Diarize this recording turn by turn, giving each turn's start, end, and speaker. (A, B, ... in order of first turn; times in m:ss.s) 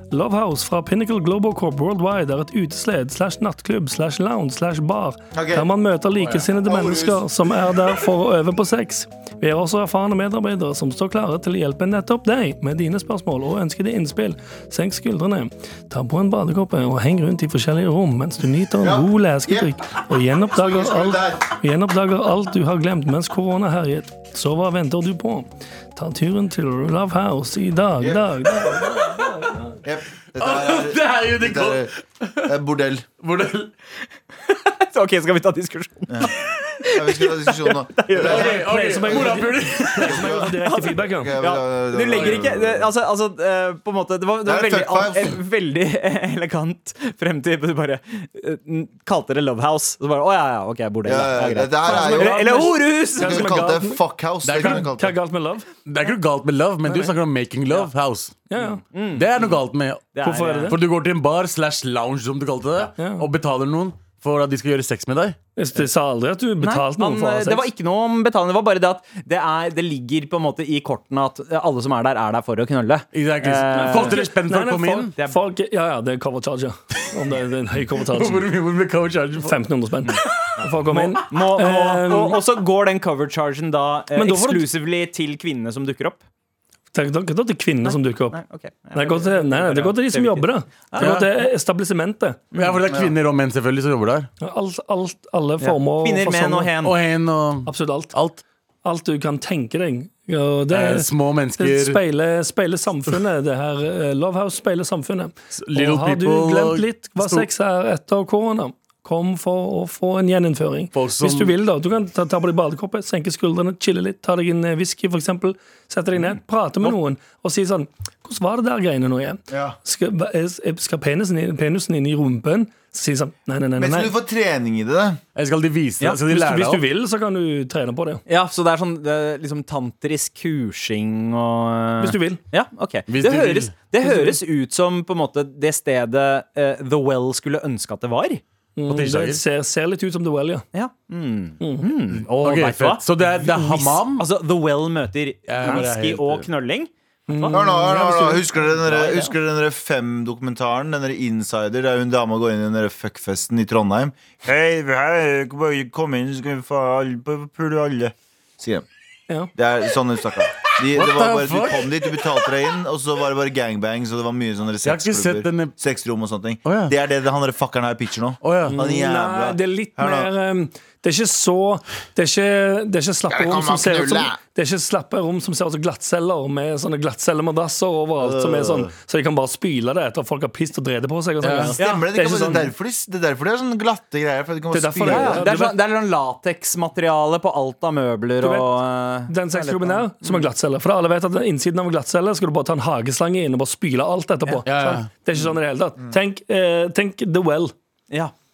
0:00.1-0:29.7 A
0:05.3-0:05.7 B
0:06.2-0:06.5 C
0:06.6-0:07.2 B
0:18.8-0:19.7 B
0:20.5-0:21.5 B
0:28.0-0:28.3 B
0:29.8-0:33.1 B
0:30.4-0:32.5 C
0:33.2-0:33.7 C
0:34.4-0:38.7 D
0:36.1-0:40.5 B
0:38.2-0:40.4 C
0:38.5-0:41.3 A
0:40.6-0:53.6 D
0:41.2-0:42.9 B
0:42.1-0:42.5 C
0:44.4-0:45.4 B
0:51.0-0:52.4 B
0:51.8-0:54.0 A
0:53.2-0:55.2 B
0:54.4-0:54.9 C
0:54.6-0:55.7 A
0:55.9-0:58.4 C
0:56.8-0:57.1 A
0:58.5-0:58.8 A
0:58.6-0:59.6 D
0:59.1-1:00.2 C
1:00.1-1:00.8 D
1:00.2-1:00.8 A
1:00.7-1:05.4 C
1:03.0-1:03.3 A
1:05.6-1:07.7 A
1:06.6-1:14.2 D
1:13.1-1:15.1 C
1:13.7-1:18.5 A
1:18.1-1:19.6 C
1:19.4-1:22.4 A
1:20.0-1:26.2 D
1:24.2-1:24.6 A
1:26.9-1:28.4 A
1:27.8-1:31.3 D
1:28.9-1:32.5 A
1:31.0-1:31.3 C
1:32.5-1:32.8 D
1:32.6-1:34.3 C
1:34.4-1:36.7 A
1:35.6-1:37.0 D
1:36.8-1:38.4 C
1:37.7-1:38.2 A
1:38.8-2:04.1 A
1:40.7-1:42.0 C
1:45.5-1:47.5 C
1:50.9-1:51.6 C
1:59.5-1:59.8 B
2:03.8-2:05.2 B
2:05.4-2:06.8 C
2:06.3-2:08.2 A
2:08.3-2:18.4 D
2:12.0-2:12.4 A
2:13.1-2:13.8 C
2:14.0-2:14.4 A
2:18.8-2:20.6 A
2:18.9-2:19.4 C
2:20.7-2:27.6 D
2:21.6-2:21.9 A
2:22.2-2:24.2 C
2:25.5-2:26.4 C
2:27.3-2:28.8 A
2:27.5-2:38.9 B
2:39.6-2:50.3 B
2:40.9-2:42.3 C
2:44.8-2:45.8 C
2:46.6-2:46.9 C
2:48.4-2:48.8 C
2:48.7-3:02.7 A
2:53.3-2:54.4 B
2:58.2-2:58.9 B
3:01.4-3:01.8 C
3:01.8-3:02.0 D
3:01.8-3:05.5 B
3:04.7-3:05.7 A
3:05.0-3:10.5 D
3:08.4-3:08.7 A
3:09.3-3:17.7 A
3:14.6-3:15.1 C